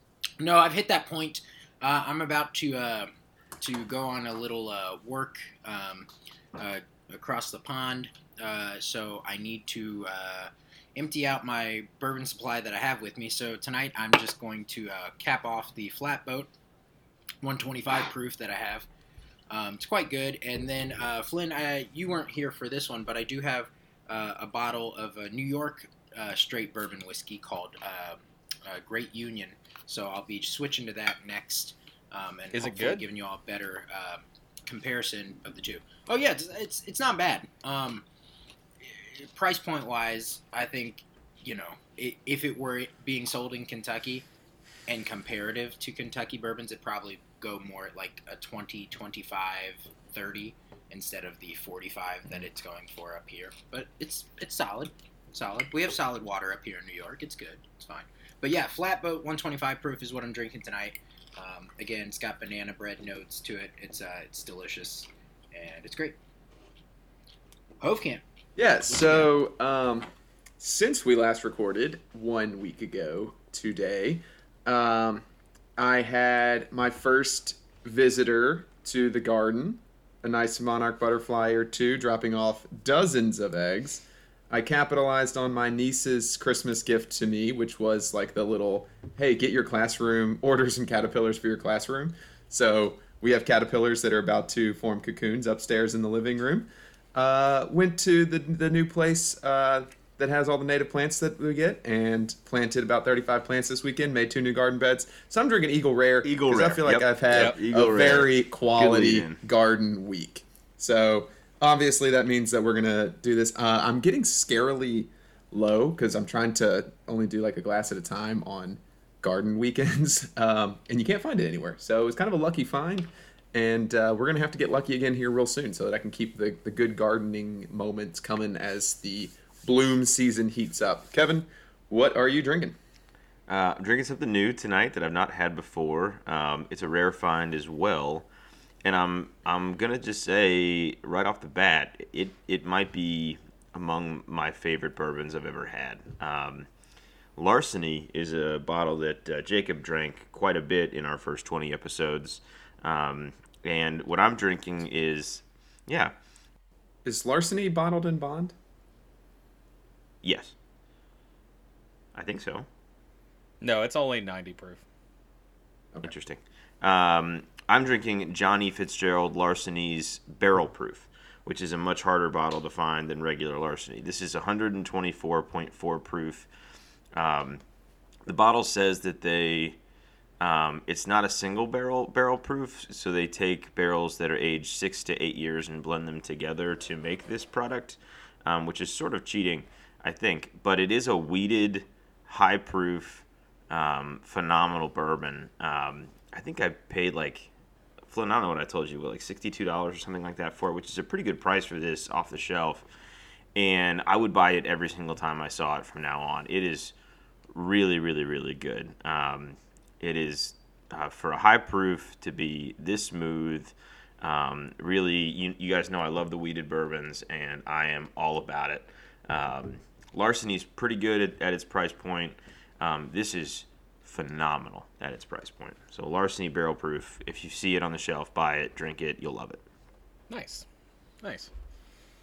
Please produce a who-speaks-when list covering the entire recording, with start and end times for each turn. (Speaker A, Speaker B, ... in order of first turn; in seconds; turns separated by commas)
Speaker A: 0.4-16.5, Speaker A: 17.4-18.9, Speaker A: 19.5-38.0, Speaker B: 32.5-33.0, Speaker A: 38.8-44.2, Speaker A: 44.9-66.2, Speaker A: 67.8-68.2, Speaker C: 68.6-75.2, Speaker A: 68.9-69.3, Speaker C: 75.8-132.8, Speaker D: 106.2-109.4, Speaker D: 133.5-138.3, Speaker D: 138.8-146.7, Speaker D: 147.3-156.1, Speaker C: 157.0-158.5, Speaker D: 160.2-160.5, Speaker D: 162.1-162.7, Speaker B: 163.6-164.8, Speaker D: 166.0-176.5, Speaker D: 177.1-177.6, Speaker D: 178.2-179.8, Speaker D: 180.4-197.5, Speaker D: 198.1-202.8, Speaker D: 203.5-206.9, Speaker D: 207.5-229.6, Speaker B: 230.3-230.6, Speaker B: 231.2-231.5